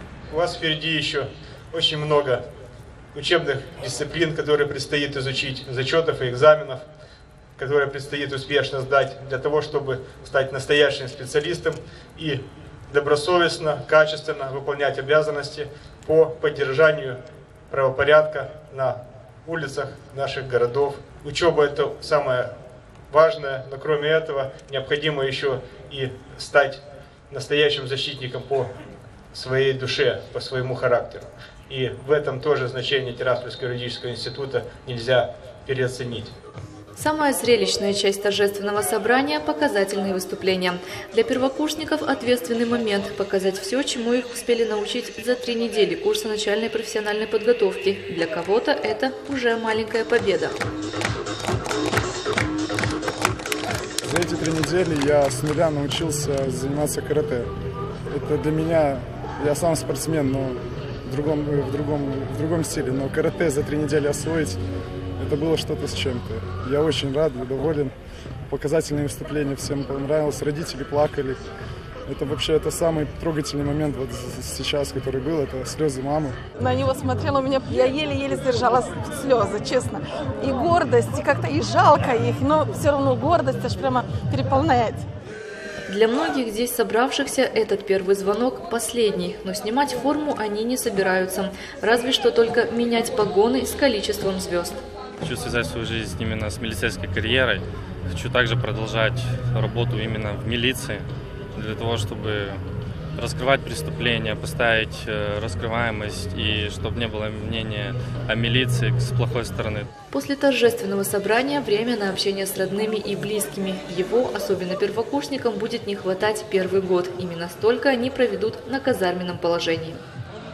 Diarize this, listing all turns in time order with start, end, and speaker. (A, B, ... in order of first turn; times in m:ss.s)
0:00.3-0:02.4 A
0:03.1-0:06.8 A
0:07.6-0:17.2 A
0:17.7-0:22.5 A
0:23.1-0:28.7 A
0:29.3-0:36.3 A
0:37.0-0:50.6 B
0:54.0-0:57.5 C
0:58.1-1:04.6 C
1:05.2-1:07.9 C
1:08.5-1:11.4 C
1:12.1-1:16.4 C
1:16.6-1:25.0 D
1:25.9-1:34.8 B
1:35.2-1:42.6 E
1:43.1-1:49.9 E
1:50.1-2:00.0 B